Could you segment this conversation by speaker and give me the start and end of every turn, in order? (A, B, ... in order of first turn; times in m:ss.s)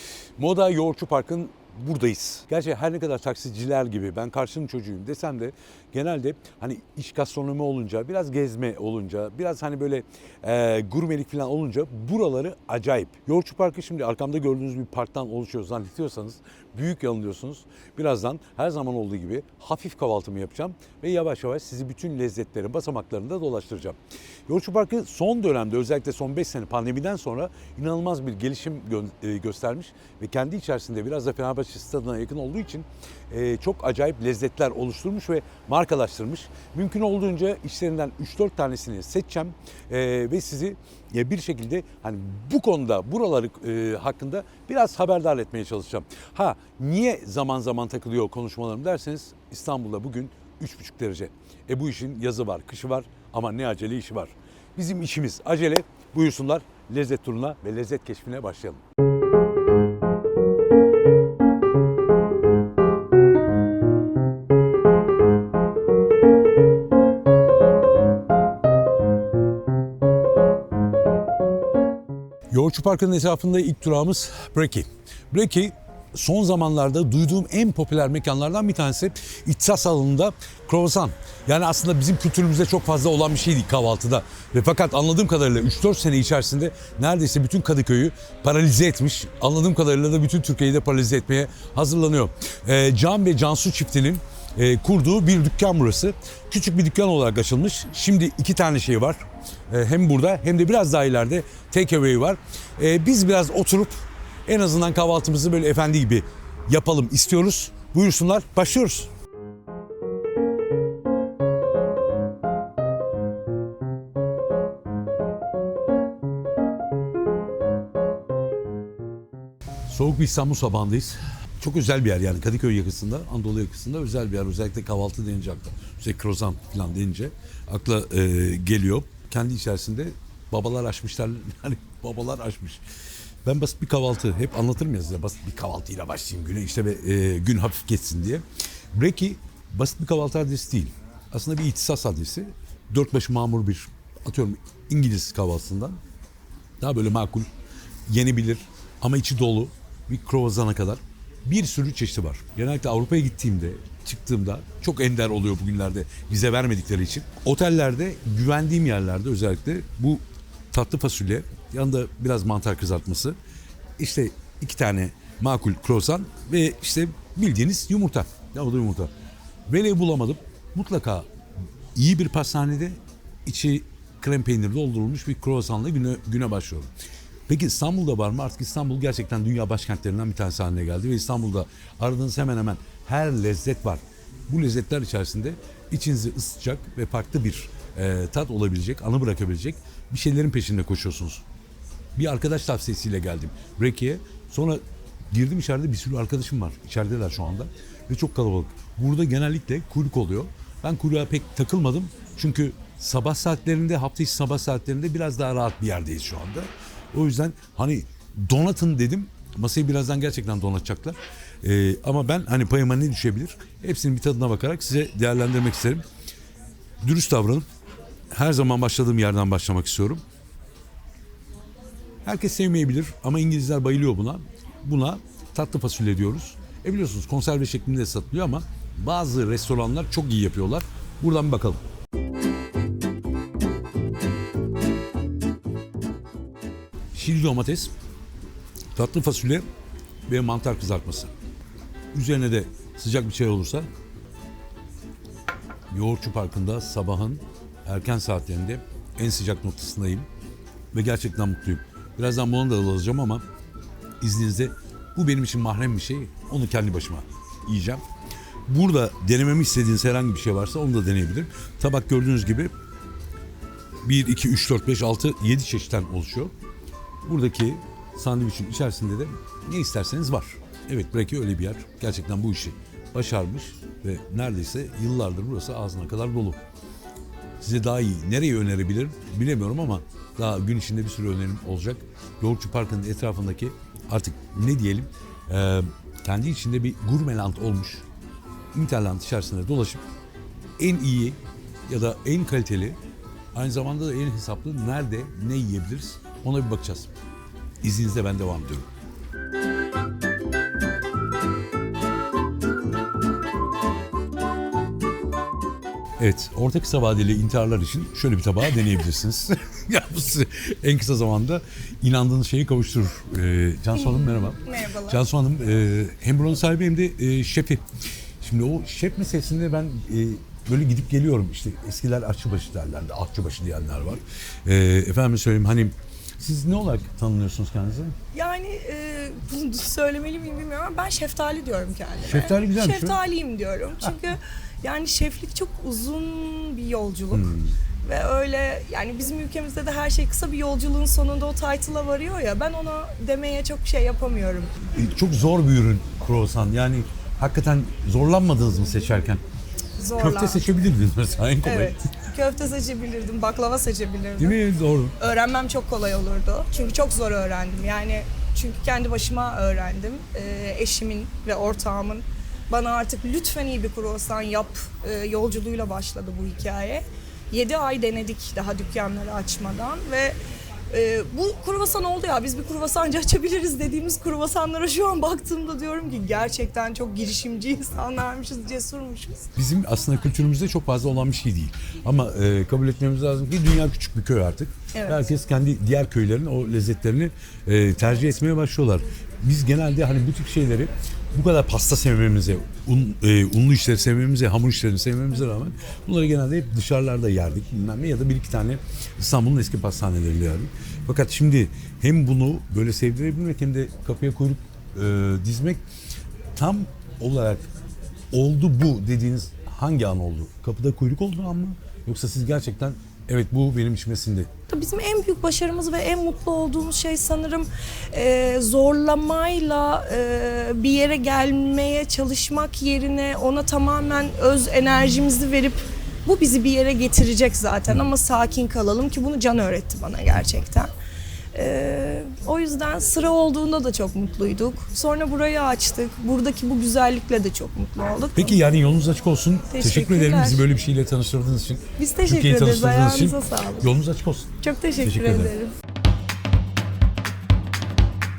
0:00.4-0:58.8 A
1:12.5-1:44.0 A
1:44.5-1:49.1 A
1:59.9-2:12.8 A
2:13.4-2:26.0 A
2:26.8-2:27.5 A
2:28.1-2:43.4 A
2:44.0-2:49.1 A
2:49.7-2:51.3 A
2:51.9-2:56.9 A
2:57.5-3:11.4 A
3:12.2-3:36.0 A
3:37.0-3:37.6 A
3:38.3-3:40.2 A
3:42.2-3:51.8 A
3:57.1-3:57.9 A
3:58.9-3:59.6 A
4:00.3-4:01.3 A
4:02.1-4:03.9 A
4:05.9-4:10.3 A
4:10.9-4:13.4 A
4:14.2-4:18.0 A
4:18.7-4:22.7 A
4:24.0-4:26.5 A
4:27.2-4:36.6 A
4:37.6-4:48.0 A
4:48.7-4:50.0 A
4:50.8-4:53.0 A
4:53.5-4:57.1 A
4:57.8-4:58.9 A
5:06.2-5:17.8 A
5:14.1-5:15.2 B
5:18.4-5:28.1 A
5:28.3-5:37.5 B
5:32.2-5:33.2 A
5:37.3-5:37.8 A
5:38.0-5:44.7 B
5:44.9-5:49.4 A
5:50.0-5:50.6 B
5:50.2-5:52.0 A
5:51.6-5:54.6 B
5:54.4-5:55.1 A
5:55.2-6:10.4 B
6:10.9-6:19.5 B
6:19.6-6:45.8 A
6:25.0-6:25.2 B
6:46.5-6:47.7 A
6:48.3-6:54.5 A
6:54.7-7:10.9 B
7:11.5-7:18.6 B
7:18.3-7:25.5 A
7:19.7-7:20.6 B
7:22.0-7:23.9 B
7:24.6-7:25.7 B